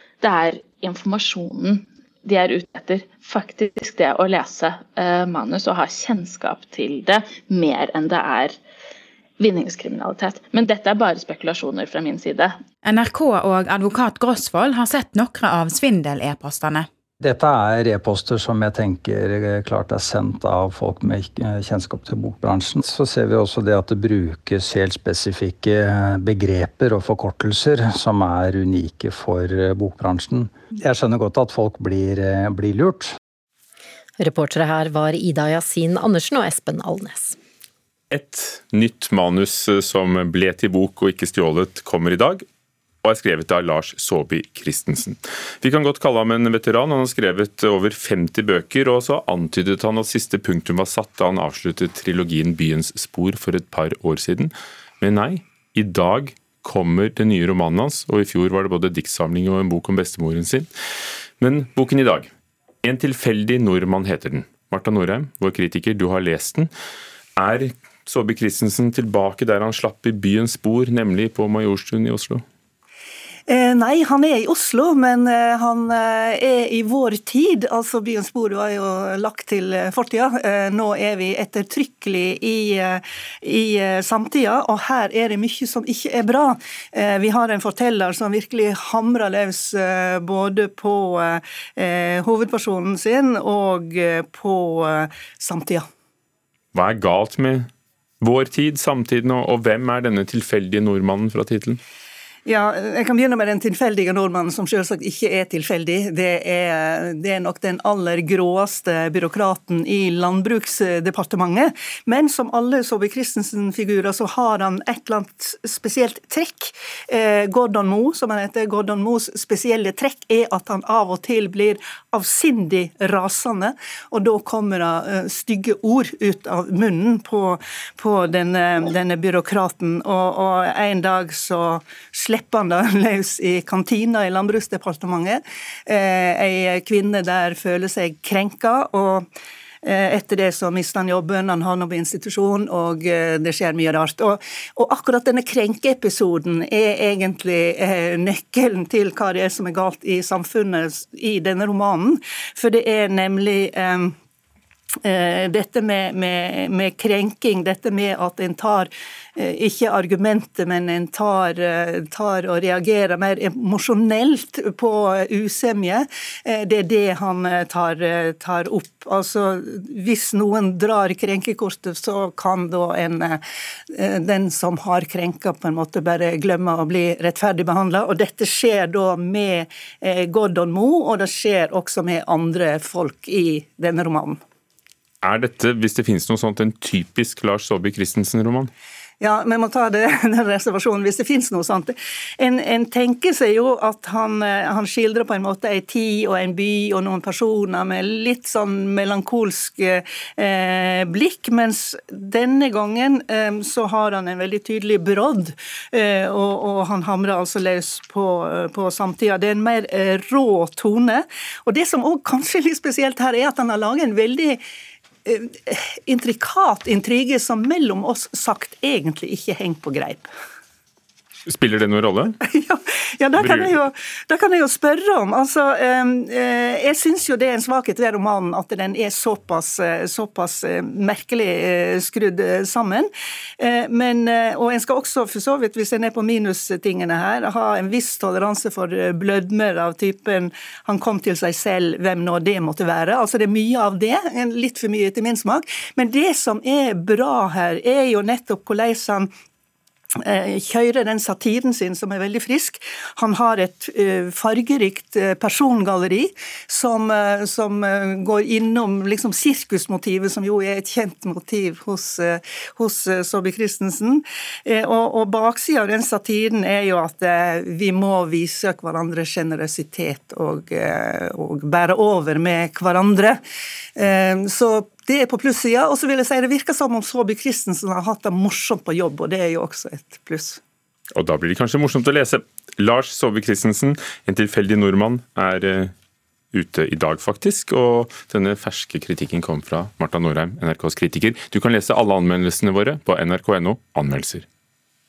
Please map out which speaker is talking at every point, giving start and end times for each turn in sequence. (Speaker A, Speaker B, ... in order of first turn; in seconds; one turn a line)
Speaker A: 0.2-8.6
Speaker A: 9.4-12.6
Speaker B: 12.8-16.9
Speaker C: 17.2-33.1
Speaker D: 34.2-37.4
Speaker E: 38.1-42.4
Speaker E: 43.0-60.7
Speaker E: 61.4-62.3
Speaker E: 62.8-66.7
Speaker E: 67.4-72.4
Speaker F: 73.5-95.8
Speaker E: 96.7-97.7
Speaker E: 98.2-101.8
Speaker F: 102.5-139.3
Speaker F: 139.8-154.1
Speaker F: 155.0-173.4
Speaker F: 173.9-184.4
Speaker E: 185.2-188.7
Speaker F: 189.2-214.6
Speaker F: 215.2-220.3
Speaker E: 221.5-222.4
Speaker F: 222.5-249.3
Speaker E: 223.4-223.8
Speaker F: 250.2-273.4
Speaker F: 274.0-280.6
Speaker E: 281.1-285.9
Speaker E: 286.5-294.5